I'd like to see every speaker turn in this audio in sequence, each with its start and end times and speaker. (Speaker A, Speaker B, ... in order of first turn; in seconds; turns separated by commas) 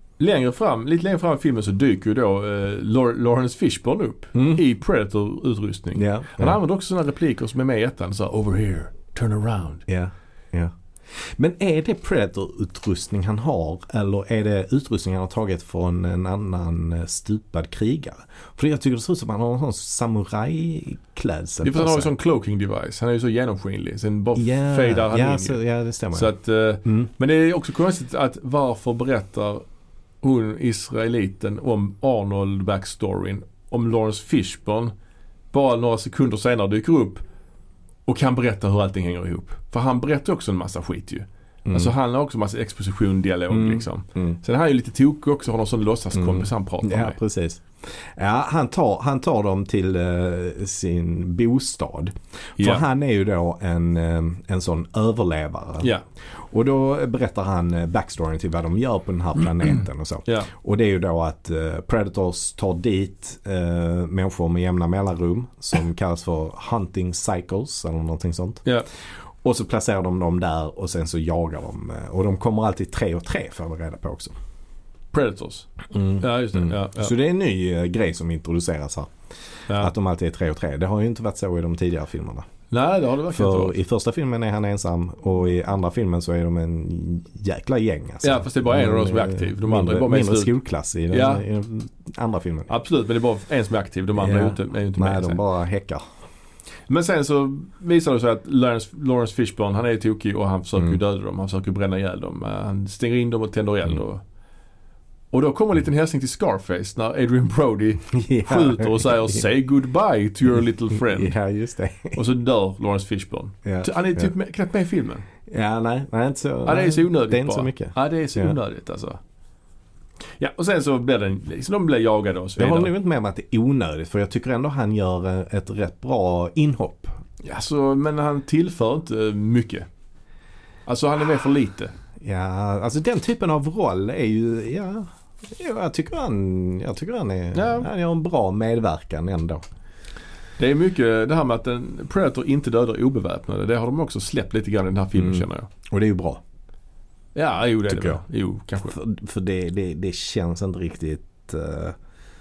Speaker A: 0.2-9.8, Speaker B: 4.3-4.6, Speaker B: 6.0-6.6, Speaker B: 9.9-22.1, Speaker A: 21.6-25.6, Speaker B: 24.4-26.3, Speaker A: 26.1-29.6, Speaker B: 26.9-27.1, Speaker A: 30.2-34.9, Speaker A: 35.5-37.2, Speaker A: 38.1-47.2, Speaker B: 41.7-41.9, Speaker B: 43.5-44.4, Speaker B: 46.1-55.9, Speaker A: 52.6-52.9, Speaker B: 56.5-68.7, Speaker B: 69.4-74.3, Speaker A: 75.1-77.1, Speaker B: 75.9-79.1, Speaker B: 79.7-82.5, Speaker A: 82.7-83.8, Speaker B: 83.3-92.7, Speaker A: 88.2-90.6, Speaker A: 91.1-91.5, Speaker A: 92.7-95.4, Speaker B: 94.2-96.0, Speaker A: 96.9-104.2, Speaker A: 105.3-111.4, Speaker B: 108.1-109.4, Speaker B: 110.9-112.2, Speaker A: 112.1-115.2, Speaker B: 113.7-114.3, Speaker B: 115.5-118.5, Speaker A: 116.7-119.2, Speaker A: 120.4-122.9, Speaker B: 122.6-127.2, Speaker A: 127.4-129.9, Speaker A: 130.9-131.9, Speaker B: 132.2-139.6, Speaker A: 137.5-137.9, Speaker A: 140.6-145.7, Speaker B: 145.2-146.4, Speaker A: 147.3-149.0, Speaker B: 147.9-148.2, Speaker B: 148.8-152.0